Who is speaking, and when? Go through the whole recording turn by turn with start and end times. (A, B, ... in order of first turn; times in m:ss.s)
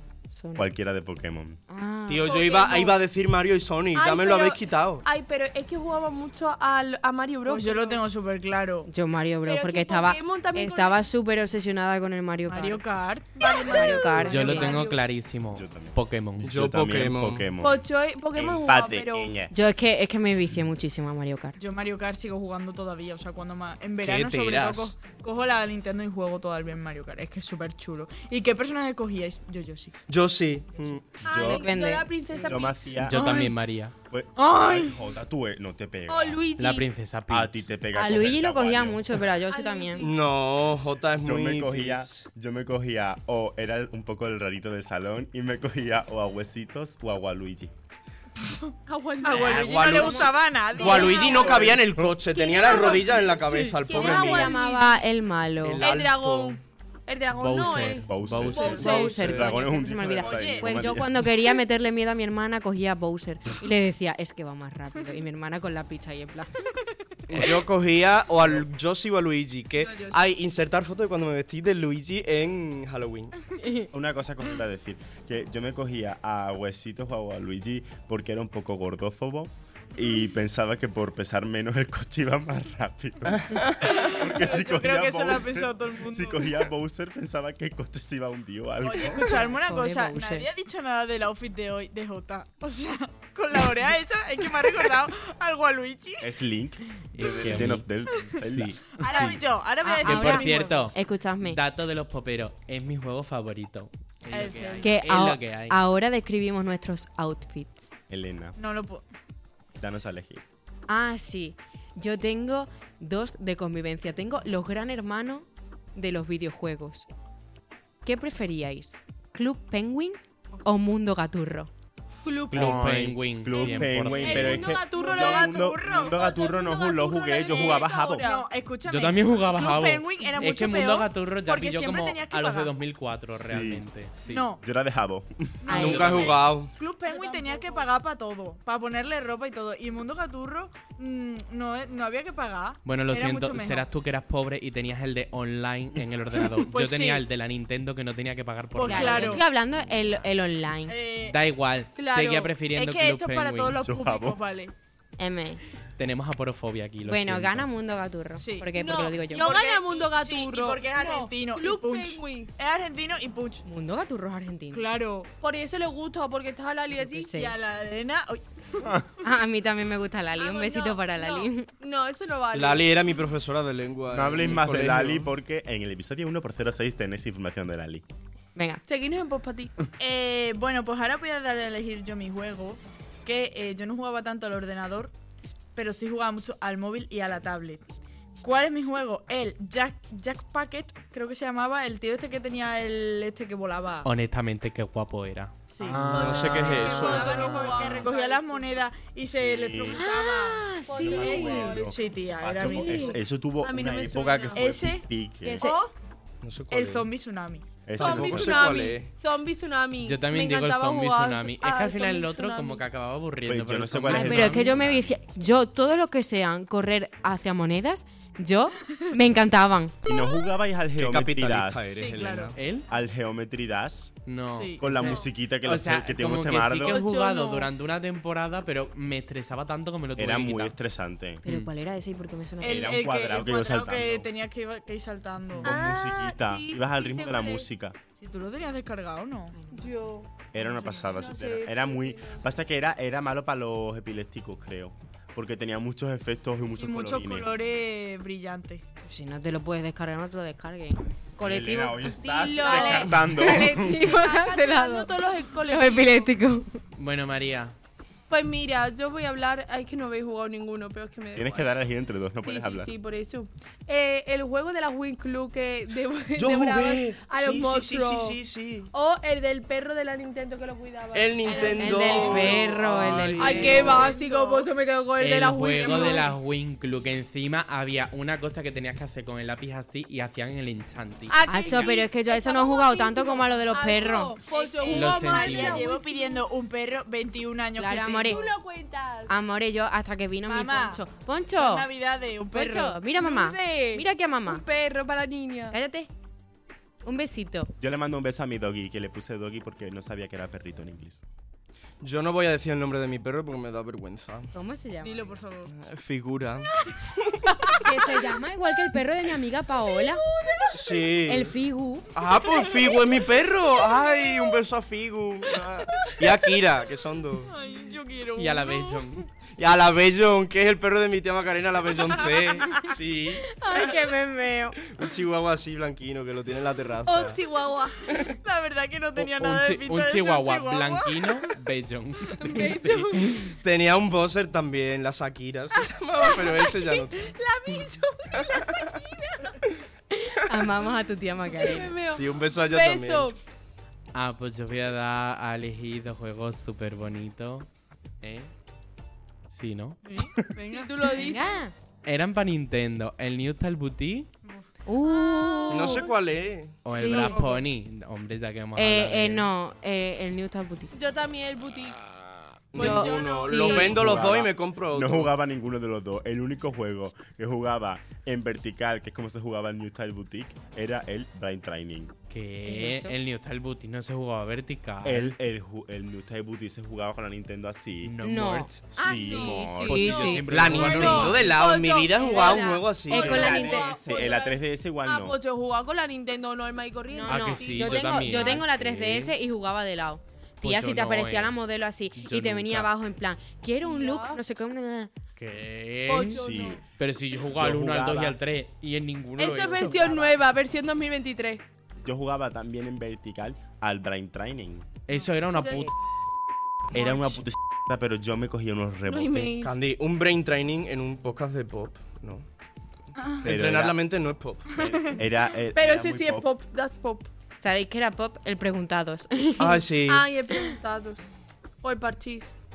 0:00.3-0:00.7 A
0:00.6-0:01.6 B
0:01.7-0:02.5 A
0:02.1-0:05.1 C
0:02.2-0:03.0 D
0:04.0-0:08.0 D
0:07.5-0:08.9 E
0:08.9-0:12.8 A
0:09.4-0:11.0 D
0:12.5-0:14.8 E
0:13.4-0:15.0 D
0:13.7-0:14.7 A
0:14.3-0:16.6 F
0:15.5-0:17.8 B
0:16.4-0:17.5 C
0:17.6-0:19.3 D
0:18.4-0:19.5 B
0:19.5-0:21.6 A
0:21.6-0:29.9 E
0:24.0-0:24.9 C
0:24.2-0:24.7 F
0:30.1-0:31.2 C
0:31.2-0:31.7 B
0:31.2-0:33.0 D
0:31.4-0:32.1 A
0:32.3-0:33.5 B
0:33.0-0:33.9 F
0:33.1-0:33.5 E
0:34.1-0:36.4 B
0:34.4-0:35.0 E
0:36.1-0:36.9 D
0:36.6-0:37.7 F
0:37.3-0:39.2 B
0:37.9-0:40.1 A
0:39.5-0:40.2 D
0:40.0-0:42.2 C
0:41.2-0:47.7 B
0:48.4-0:51.7 E
0:48.9-0:50.0 D
0:49.3-0:50.3 A
0:49.5-0:54.5 C
0:50.7-0:55.0 D
0:51.4-0:52.2 B
0:52.6-0:53.8 E
0:53.9-0:55.8 A
0:55.6-0:56.6 C
0:55.8-0:59.3 D
0:57.4-0:59.3 F
0:58.0-1:01.5 B
0:58.3-0:59.5 C
0:58.7-1:06.6 A
1:00.2-1:00.7 E
1:07.3-1:13.4 C
1:09.8-1:10.2 E
1:13.6-1:13.9 A
1:13.9-1:29.5 B
1:23.3-1:23.6 C
1:23.8-1:26.6 E
1:28.8-1:36.3 E
1:29.6-1:30.5 A
1:36.2-1:39.2 B
1:37.1-1:39.4 F
1:39.0-1:40.9 E
1:39.8-1:41.6 A
1:40.0-1:45.8 F
1:44.3-1:44.9 E
1:44.8-1:48.0 A
1:48.1-1:48.6 B
1:48.6-1:49.1 E
1:49.8-1:50.4 B
1:50.9-1:57.1 A
1:58.0-2:01.7 A
2:02.2-2:02.9 D
2:02.5-2:04.6 F
2:02.5-2:08.3 B
2:03.5-2:08.5 D
2:04.8-2:06.2 E
2:07.5-2:12.7 E
2:08.9-2:14.5 F
2:13.3-2:13.8 B
2:14.3-2:14.6 E
2:14.6-2:15.7 B
2:15.6-2:23.9 E
2:15.7-2:16.2 A
2:15.7-2:16.4 F
2:15.7-2:16.8 C
2:17.1-2:17.9 D
2:22.8-2:29.4 F
2:26.7-2:27.2 E
2:28.8-2:29.4 E
2:28.9-2:31.0 A
2:30.9-2:31.4 E
2:31.3-2:33.8 F
2:32.0-2:32.6 D
2:32.7-2:34.7 E
2:33.8-2:34.4 B
2:35.2-2:35.6 A
2:36.0-2:37.7 F
2:37.1-2:39.5 A
2:38.4-2:38.7 E
2:38.7-2:42.5 D
2:39.3-2:43.6 E
2:43.6-2:44.8 A
2:44.7-2:45.3 E
2:45.4-2:47.5 D
2:46.9-2:47.5 A
2:47.3-2:49.0 E
2:49.2-2:51.7 A
2:50.4-2:52.9 D
2:52.5-2:55.3 C
2:54.1-2:58.0 B
2:58.6-2:58.8 A
2:58.9-2:59.7 D
3:00.0-3:05.1 E
3:05.8-3:07.8 E
3:08.4-3:14.1 E
3:14.0-3:15.5 F
3:15.7-3:23.2 E
3:15.8-3:16.4 B
3:15.9-3:17.6 C
3:16.1-3:18.9 D
3:19.2-3:20.0 B
3:20.0-3:21.7 A
3:20.8-3:24.8 D
3:21.2-3:25.7 B
3:22.6-3:23.2 A
3:24.5-3:25.1 E
3:25.4-3:25.8 D
3:25.6-3:25.9 E
3:26.4-3:27.1 C
3:26.7-3:27.8 E
3:27.9-3:28.8 B
3:28.0-3:29.1 C
3:28.0-3:32.8 D
3:30.0-3:34.9 F
3:33.4-3:35.2 B
3:34.1-3:40.0 A
3:40.0-3:42.1 B
3:41.0-3:42.6 C
3:42.0-3:42.6 E
3:42.6-3:42.8 F
3:42.9-3:44.2 B
3:44.3-3:50.8 F
3:44.5-3:44.9 E
3:44.8-3:47.0 B
3:46.9-3:47.7 D
3:50.2-3:51.4 B
3:51.4-3:53.0 A
3:51.5-3:51.7 F
3:52.6-3:55.8 E
3:52.6-3:54.3 B
3:55.6-3:58.0 B
3:55.6-3:57.7 D
3:58.2-3:59.6 E
3:59.6-3:59.9 A
3:59.7-4:00.3 D
4:00.5-4:07.5 B
4:00.8-4:02.5 D
4:06.8-4:08.8 E
4:09.1-4:15.1 A
4:11.4-4:14.0 B
4:12.0-4:16.3 D
4:15.6-4:16.8 A
4:17.0-4:17.8 F
4:18.3-4:21.7 D
4:21.4-4:22.9 B
4:22.4-4:28.4 D
4:26.4-4:28.9 C
4:28.9-4:32.3 D
4:31.1-4:34.1 C
4:31.5-4:32.8 E
4:31.7-4:33.9 A
4:33.4-4:36.3 D
4:33.6-4:34.7 E
4:35.2-4:41.4 F
4:35.8-4:36.3 E
4:41.3-4:46.5 D
4:41.5-4:44.4 A
4:44.5-4:48.5 E
4:44.8-4:45.9 F
4:47.8-4:48.5 A
4:48.3-4:49.3 D
4:49.3-4:51.9 A
4:50.4-4:51.0 E
4:51.6-4:53.0 E
4:52.5-4:54.6 A
4:53.1-4:55.8 D
4:55.7-4:56.1 A
4:57.0-4:57.7 A
4:57.8-5:01.2 B
5:02.0-5:04.5 C
5:04.5-5:05.2 A
5:05.0-5:05.7 E
5:05.7-5:07.4 C
5:07.8-5:10.2 A
5:10.3-5:11.2 D
5:10.8-5:11.5 C
5:11.3-5:12.1 A
5:12.2-5:17.5 C
5:13.9-5:14.3 D
5:17.5-5:19.1 E
5:18.4-5:19.3 F
5:19.6-5:23.5 C
5:22.0-5:23.0 E
5:23.5-5:24.8 A
5:24.8-5:27.4 C
5:27.1-5:28.0 D
5:28.1-5:28.3 C
5:28.4-5:31.5 E
5:29.2-5:33.6 F
5:32.4-5:33.5 D
5:33.6-5:37.8 C
5:36.2-5:39.5 D
5:38.3-5:38.8 C
5:40.2-5:42.0 A
5:41.5-5:43.4 D
5:42.0-5:43.4 C
5:44.1-5:47.7 F
5:48.2-5:48.5 F
5:49.5-5:50.5 F
5:50.0-5:51.0 E
5:50.7-5:51.6 D
5:51.2-5:51.7 A
5:52.0-5:54.3 F
5:54.9-5:56.1 A
5:55.1-5:56.1 D
5:55.7-5:56.9 C
5:56.8-5:59.5 F
5:56.9-5:57.4 A
5:57.0-5:57.6 E
5:58.8-6:00.9 A
6:00.9-6:02.0 D
6:02.7-6:05.3 C
6:02.8-6:03.9 A
6:02.8-6:04.0 D
6:02.8-6:04.1 E
6:03.9-6:12.1 B
6:12.3-6:15.3 F
6:12.6-6:13.1 A
6:15.0-6:18.1 B
6:18.0-6:18.9 F
6:18.2-6:21.3 A
6:18.9-6:21.3 B
6:19.0-6:28.6 D
6:19.7-6:21.5 F
6:20.5-6:23.5 C
6:22.2-6:23.9 A
6:23.1-6:25.4 B
6:27.1-6:35.1 A
6:27.3-6:29.3 F
6:30.6-6:31.6 F
6:32.2-6:32.9 F
6:33.8-6:34.4 D
6:35.4-6:40.1 F
6:36.1-6:36.8 D
6:36.2-6:36.8 B
6:37.5-6:38.4 B
6:39.4-6:41.6 D
6:42.0-6:45.0 B
6:45.1-6:45.9 F
6:45.1-6:45.9 D
6:46.9-6:49.5 B
6:49.1-6:49.7 D
6:49.6-6:52.5 C
6:53.2-6:53.4 E
6:53.4-6:55.1 C
6:53.4-6:54.0 B
6:54.8-6:56.5 B
6:54.8-6:55.2 E
6:55.7-6:57.3 D
6:57.6-6:59.9 A
6:59.6-7:00.3 C
7:00.1-7:01.3 D
7:01.8-7:02.5 D